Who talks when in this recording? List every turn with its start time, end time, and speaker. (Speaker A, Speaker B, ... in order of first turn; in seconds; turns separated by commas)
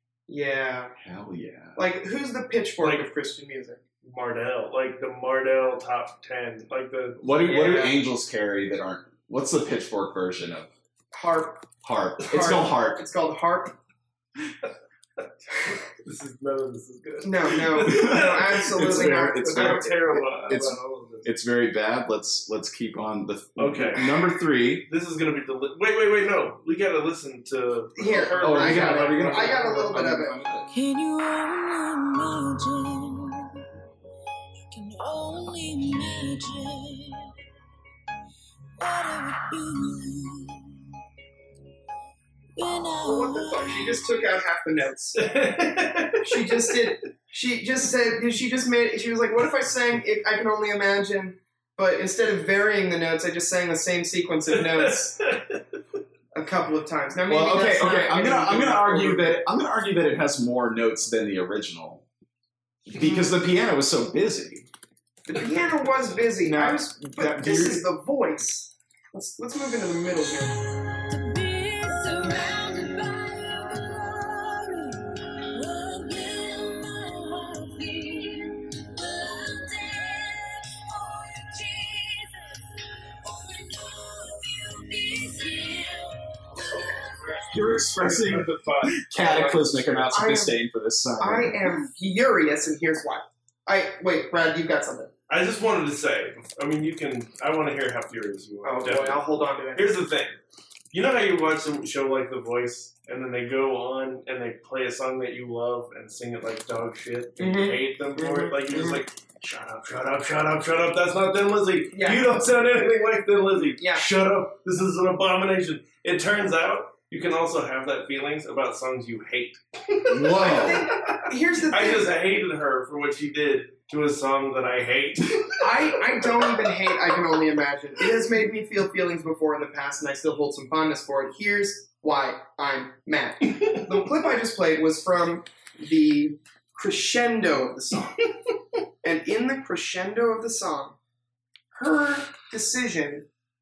Speaker A: 0.3-0.9, Speaker B: 1.0-1.8, Speaker A: 1.8-3.8, Speaker C: 2.8-3.1, Speaker C: 4.0-7.2, Speaker B: 7.2-10.7, Speaker A: 7.4-8.0, Speaker A: 11.1-11.7, Speaker B: 11.8-13.0, Speaker A: 12.3-13.8, Speaker C: 15.9-21.3, Speaker A: 17.2-20.2, Speaker B: 17.8-24.9, Speaker C: 23.6-24.1, Speaker C: 24.9-29.8, Speaker A: 28.0-30.4, Speaker B: 28.4-30.7, Speaker D: 30.7-33.5, Speaker D: 34.7-37.3, Speaker D: 38.8-40.8, Speaker D: 42.6-44.0, Speaker A: 43.0-45.2, Speaker C: 45.2-46.8, Speaker A: 46.2-55.2, Speaker C: 54.5-55.6, Speaker A: 56.3-59.4, Speaker B: 57.3-62.0, Speaker B: 62.9-64.7, Speaker A: 63.0-63.3, Speaker A: 65.3-70.6, Speaker B: 66.6-67.8, Speaker D: 71.1-87.8, Speaker B: 87.5-91.6, Speaker C: 87.5-90.1, Speaker A: 90.1-90.6, Speaker A: 91.2-95.1, Speaker C: 95.3-100.4, Speaker A: 98.6-100.0, Speaker C: 100.9-126.7, Speaker A: 107.4-109.0, Speaker A: 111.9-112.5, Speaker A: 113.8-114.1, Speaker B: 120.1-120.9, Speaker A: 120.3-122.1, Speaker A: 125.6-138.3, Speaker A: 139.0-140.9, Speaker A: 141.7-143.3